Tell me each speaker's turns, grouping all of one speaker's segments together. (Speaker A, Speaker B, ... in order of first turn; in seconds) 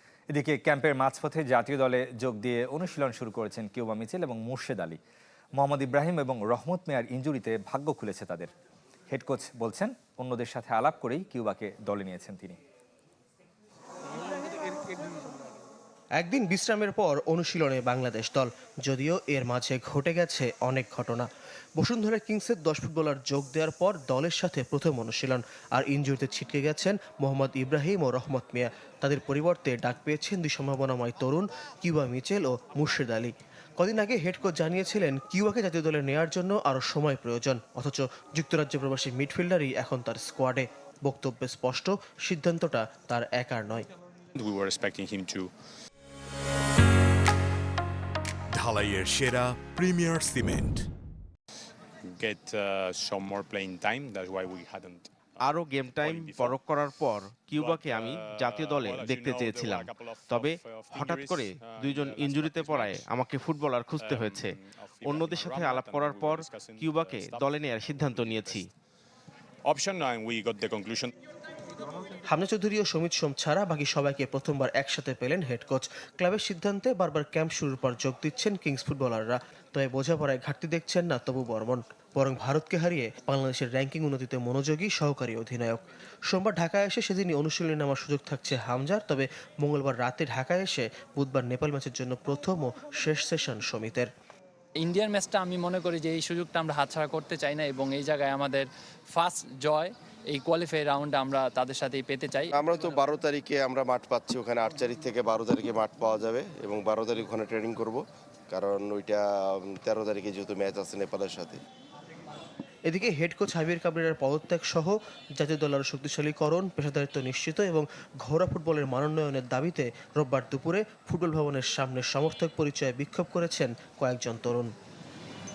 Speaker A: 0.3-5.0, 5.6-8.5, 9.1-12.6
Speaker B: 16.2-43.9, 72.3-94.1, 112.9-124.7
Speaker C: 44.4-45.5, 52.0-56.6, 57.5-63.0, 64.0-68.6, 69.7-71.1
Speaker D: 48.5-50.9
Speaker E: 55.4-68.7
Speaker F: 94.8-102.5
Speaker G: 102.5-111.6